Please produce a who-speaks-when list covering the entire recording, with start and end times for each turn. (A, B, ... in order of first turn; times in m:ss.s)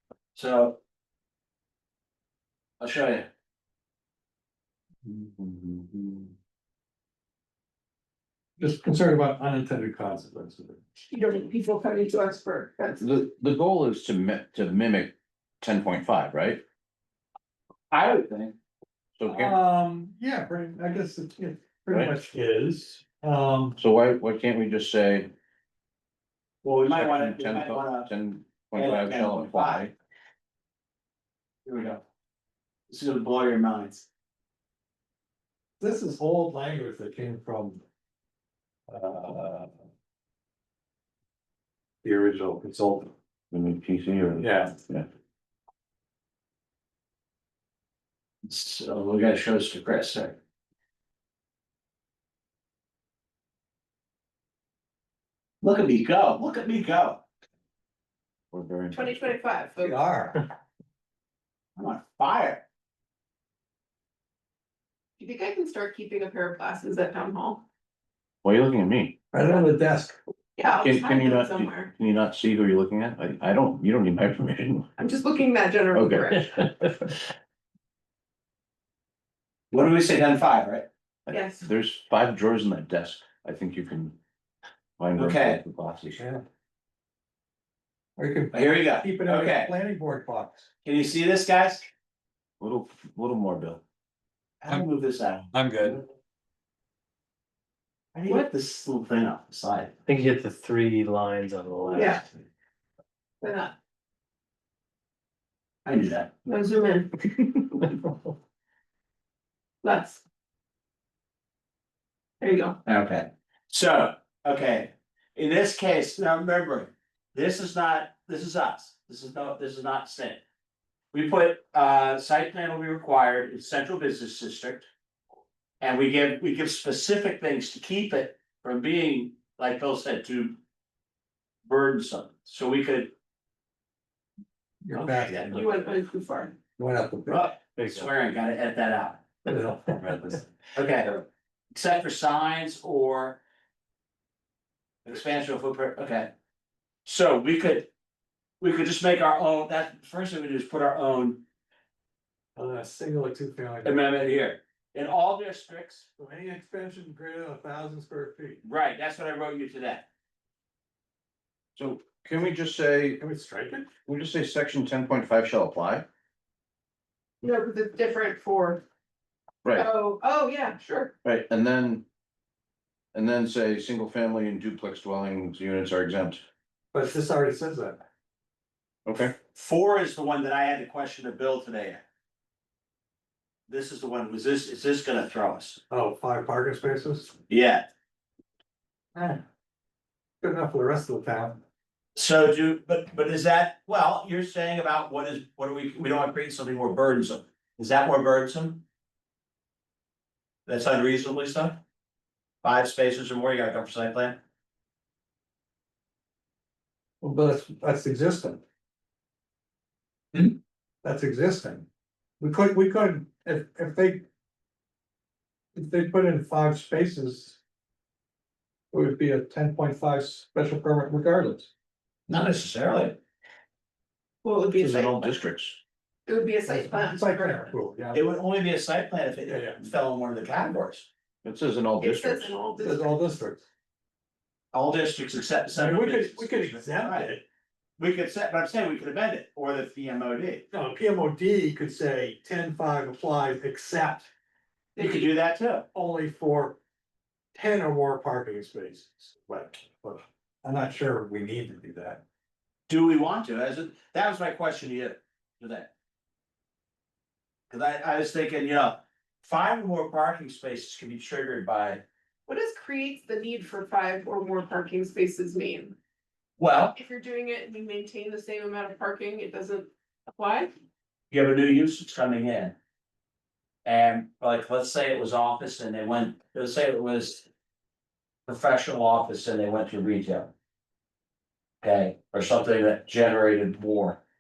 0:00.3-0:00.8 A
0:02.8-0:03.3 A
0:08.6-0:10.8 B
0:11.1-0:13.0 C
0:13.0-0:16.6 D
0:17.9-0:18.6 A
0:19.2-0:19.6 D
0:19.3-0:23.8 B
0:23.8-0:25.3 D
0:26.6-0:28.1 A
0:26.9-0:29.9 D
0:28.7-0:29.9 A
0:31.7-0:32.0 A
0:32.9-0:34.1 A
0:35.8-0:37.8 B
0:38.9-0:39.7 B
0:42.0-0:43.1 B
0:43.5-0:45.1 D
0:44.4-0:44.7 B
0:48.4-0:50.4 A
0:55.6-0:57.2 A
0:58.5-0:59.3 D
0:58.9-1:00.0 C
0:59.8-1:00.4 B
1:01.8-1:02.6 A
1:05.2-1:07.6 C
1:08.4-1:09.2 D
1:09.3-1:10.2 B
1:10.6-1:11.9 C
1:10.7-1:14.9 D
1:15.0-1:16.5 C
1:15.9-1:16.6 D
1:19.7-1:20.9 A
1:21.3-1:24.2 D
1:21.3-1:21.7 C
1:25.0-1:26.2 D
1:25.2-1:25.6 A
1:26.2-1:26.4 B
1:28.2-1:30.7 B
1:28.5-1:29.8 A
1:30.8-1:31.9 A
1:32.6-1:33.8 D
1:34.6-1:36.0 A
1:35.5-1:36.0 E
1:38.2-1:40.0 A
1:40.1-1:42.2 E
1:42.0-1:42.2 C
1:43.4-1:43.8 C
1:45.9-1:46.3 A
1:46.5-1:47.3 C
1:49.8-1:50.2 C
1:52.4-1:52.8 C
1:52.9-2:00.4 A
2:01.1-2:04.9 A
2:05.8-2:10.6 A
2:11.6-2:13.1 A
2:14.8-2:15.6 B
2:14.9-2:15.7 A
2:15.5-2:16.6 C
2:16.8-2:17.5 B
2:17.3-2:23.4 A
2:17.8-2:18.1 E
2:19.5-2:20.4 B
2:25.0-2:26.3 A
2:27.1-2:27.9 A
2:28.6-2:31.4 A
2:32.6-2:34.1 B
2:33.8-2:36.1 A
2:36.2-2:38.6 B
2:38.6-2:40.1 A
2:41.8-2:43.2 D
2:43.2-2:43.9 B
2:44.1-2:46.1 D
2:47.4-2:48.8 C
2:49.6-2:49.9 D
2:49.7-2:51.1 C
2:51.2-2:52.0 D
2:53.1-2:56.4 D
2:56.9-2:58.0 B
2:59.1-2:59.4 D
2:59.5-3:02.0 A
3:03.7-3:05.8 A
3:05.9-3:07.4 B
3:07.5-3:07.9 A
3:09.2-3:09.4 B
3:10.4-3:11.6 B
3:12.2-3:18.8 A
3:20.7-3:21.8 A
3:22.6-3:24.4 A
3:27.2-3:28.6 B
3:31.0-3:31.9 B
3:32.4-3:34.3 B
3:35.8-3:37.6 B
3:38.9-3:41.7 B
3:42.3-3:43.2 A
3:44.4-3:45.4 C
3:44.8-3:45.8 D
3:44.9-3:45.2 A
3:46.3-3:47.8 C
3:46.7-3:48.3 B
3:48.1-3:51.1 A
3:49.5-3:49.8 B
3:51.4-3:52.6 D
3:52.0-3:53.1 C
3:52.8-3:53.7 B
3:54.7-3:57.3 A
3:55.8-3:57.4 B
3:58.0-4:00.7 A
4:00.7-4:04.3 B
4:05.0-4:05.9 A
4:05.9-4:06.8 B
4:07.5-4:12.2 B
4:12.9-4:15.9 A
4:17.7-4:22.0 A
4:22.5-4:26.0 C
4:26.6-4:27.0 A
4:27.0-4:30.7 C
4:31.3-4:32.8 A
4:33.8-4:37.5 A
4:38.5-4:40.5 A
4:41.8-4:44.2 A